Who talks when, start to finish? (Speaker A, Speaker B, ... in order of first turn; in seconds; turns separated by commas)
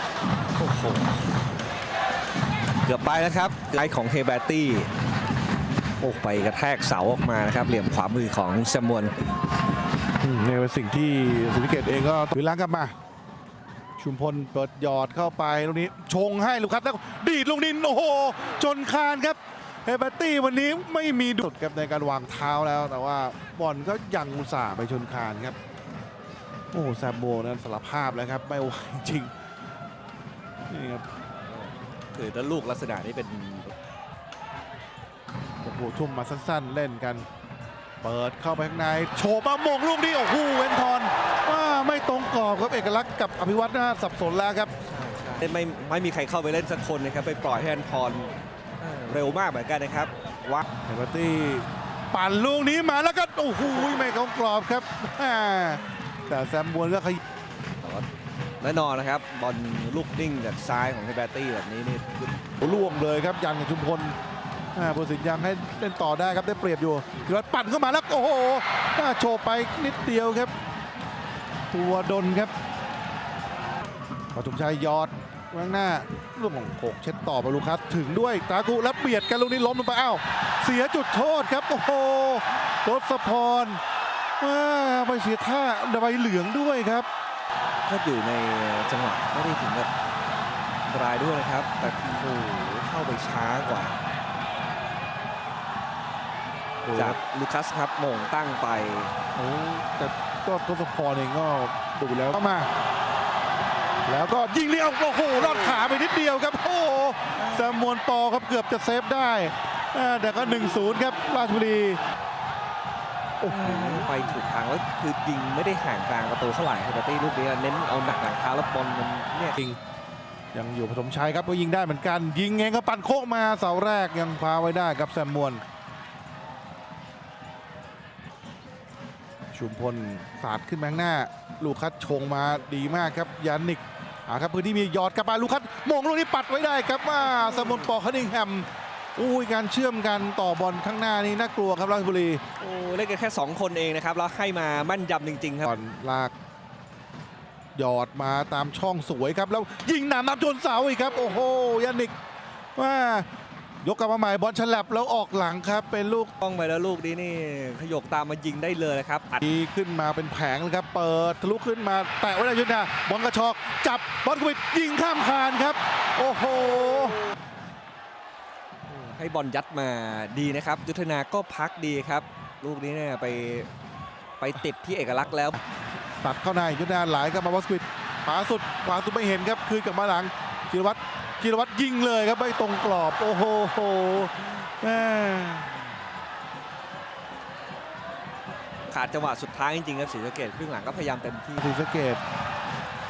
Speaker A: 0.6-1.4, Speaker A: 2.8-4.9, Speaker A: 6.0-9.1, Speaker B: 10.2-12.9, Speaker B: 14.0-25.6, Speaker B: 26.7-29.3, Speaker B: 30.7-31.1, Speaker A: 31.4-33.7, Speaker B: 35.6-37.2, Speaker B: 38.0-44.7, Speaker A: 44.8-50.6, Speaker B: 50.9-57.2, Speaker A: 58.6-62.5, Speaker B: 62.6-64.2, Speaker B: 64.8-70.5, Speaker B: 71.7-72.5, Speaker B: 74.3-83.8, Speaker B: 84.4-87.1, Speaker A: 87.9-89.9, Speaker A: 90.9-94.0, Speaker B: 96.8-97.2, Speaker A: 96.9-99.1, Speaker B: 99.4-102.7, Speaker B: 104.1-112.0, Speaker A: 107.4-107.8, Speaker B: 113.4-114.1, Speaker A: 113.5-119.6, Speaker B: 120.5-125.6, Speaker B: 129.5-142.4, Speaker A: 142.6-145.7, Speaker B: 145.7-146.3, Speaker B: 147.8-152.1, Speaker B: 152.8-153.3, Speaker B: 153.8-156.3, Speaker A: 156.4-159.4, Speaker B: 159.4-167.2, Speaker A: 169.1-173.7, Speaker A: 174.4-175.6, Speaker B: 176.2-185.7, Speaker A: 188.9-191.7, Speaker B: 191.6-192.2